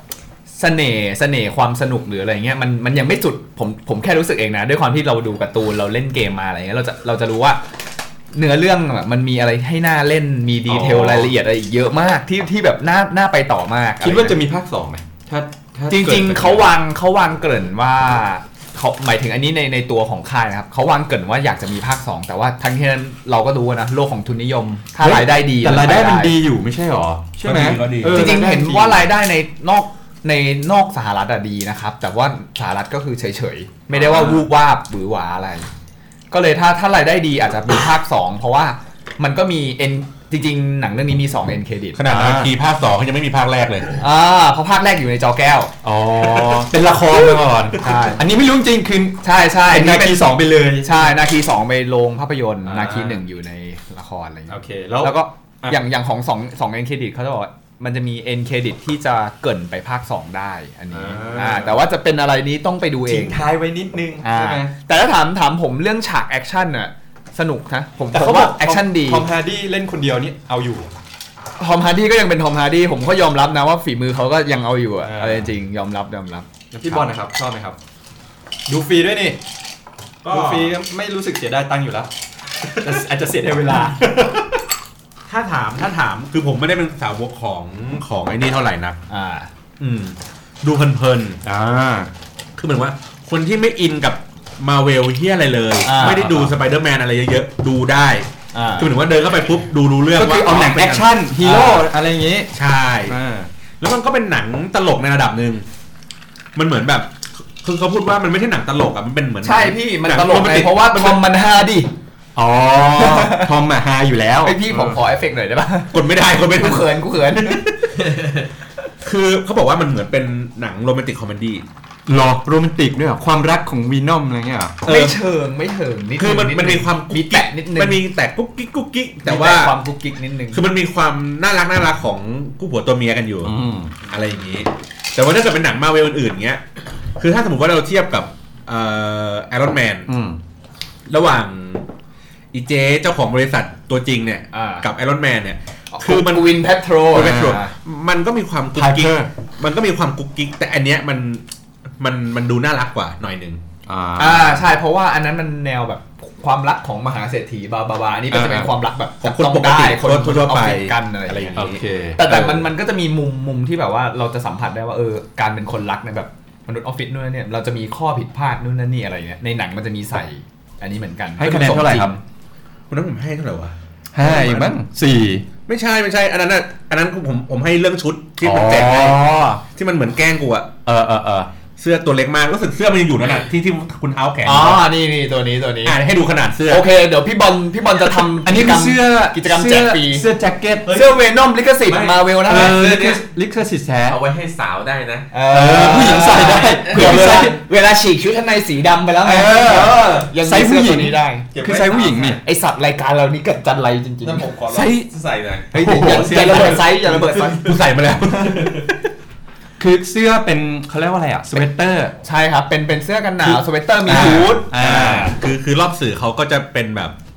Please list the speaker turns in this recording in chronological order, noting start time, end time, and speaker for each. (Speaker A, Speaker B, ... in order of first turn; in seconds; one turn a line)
Speaker A: 0.5-7.6
Speaker A: 8.3-14.4
Speaker B: 10.7-11.3
Speaker B: 14.0-16.7
Speaker A: 15.9-26.3
Speaker B: 25.0-29.1
Speaker C: 27.4-28.4
Speaker A: 28.1-35.7
Speaker C: 34.1-34.4
Speaker A: 36.3-42.1
Speaker C: 41.9-44.0
Speaker B: 42.1-42.5
Speaker A: 44.0-45.7
Speaker B: 45.8-51.0
Speaker A: 47.8-48.2
Speaker A: 49.2-63.4
Speaker B: 52.6-53.2
Speaker B: 54.5-55.8
Speaker B: 60.9-61.8
Speaker B: 63.0-64.7
Speaker A: 64.2-69.3
Speaker B: 68.1-70.9
Speaker A: 71.6-76.4
Speaker B: 75.0-75.5
Speaker B: 76.7-77.8
Speaker B: 78.7-79.4
Speaker C: 80.2-80.7
Speaker B: 80.3-82.1
Speaker B: 82.8-84.6
Speaker C: 85.2-89.0
Speaker A: 89.1-89.5
Speaker C: 89.8-91.4
Speaker B: 91.4-92.1
Speaker C: 92.6-101.1
Speaker A: 95.8-96.3
Speaker B: 96.0-96.5
Speaker A: 98.5-98.9
Speaker B: 100.1-102.5
Speaker A: 101.4-101.8
Speaker C: 102.5-103.2
Speaker B: 103.0-103.5
Speaker C: 103.8-105.6
Speaker C: 106.5-111.2
Speaker A: 109.4-111.9
Speaker B: 112.3-115.0
Speaker A: 112.9-113.5
Speaker A: 114.4-118.1
Speaker C: 115.9-116.9
Speaker C: 119.0-121.6
Speaker B: 122.1-124.8
Speaker A: 124.8-128.0
Speaker C: 124.9-125.2
Speaker C: 126.2-129.8
Speaker A: 129.2-130.6
Speaker C: 130.5-133.5
Speaker B: 133.4-133.9
Speaker C: 134.1-136.6
Speaker C: 137.2-140.1
Speaker B: 140.1-140.4
Speaker C: 141.1-141.8
Speaker C: 142.5-151.4
Speaker A: 144.5-144.8
Speaker A: 145.9-147.7
Speaker B: 147.1-147.6
Speaker B: 148.7-149.3
Speaker C: 152.0-153.6
Speaker B: 153.8-154.7
Speaker A: 154.2-172.2
Speaker B: 158.3-158.7
Speaker C: 159.2-161.8
Speaker B: 161.6-162.6
Speaker B: 171.4-172.1
Speaker C: 172.9-174.8
Speaker B: 174.1-175.5
Speaker C: 175.7-180.8
Speaker B: 178.4-179.6
Speaker B: 180.8-181.5
Speaker C: 181.8-184.9
Speaker A: 184.4-186.1
Speaker C: 185.8-186.9
Speaker A: 186.7-190.3
Speaker B: 188.4-191.0
Speaker A: 190.8-192.8
Speaker B: 191.8-194.2
Speaker D: 192.5-193.2
Speaker D: 194.0-195.3
Speaker A: 195.3-201.5
Speaker B: 195.5-197.6
Speaker B: 199.2-202.4
Speaker C: 199.6-200.2
Speaker C: 201.5-202.3
Speaker A: 202.4-204.6
Speaker C: 204.2-208.9
Speaker D: 204.4-205.1
Speaker B: 205.7-207.0
Speaker A: 205.7-207.8
Speaker A: 208.4-208.8
Speaker B: 209.8-212.1
Speaker A: 212.2-215.4
Speaker B: 213.4-215.3
Speaker C: 214.1-217.1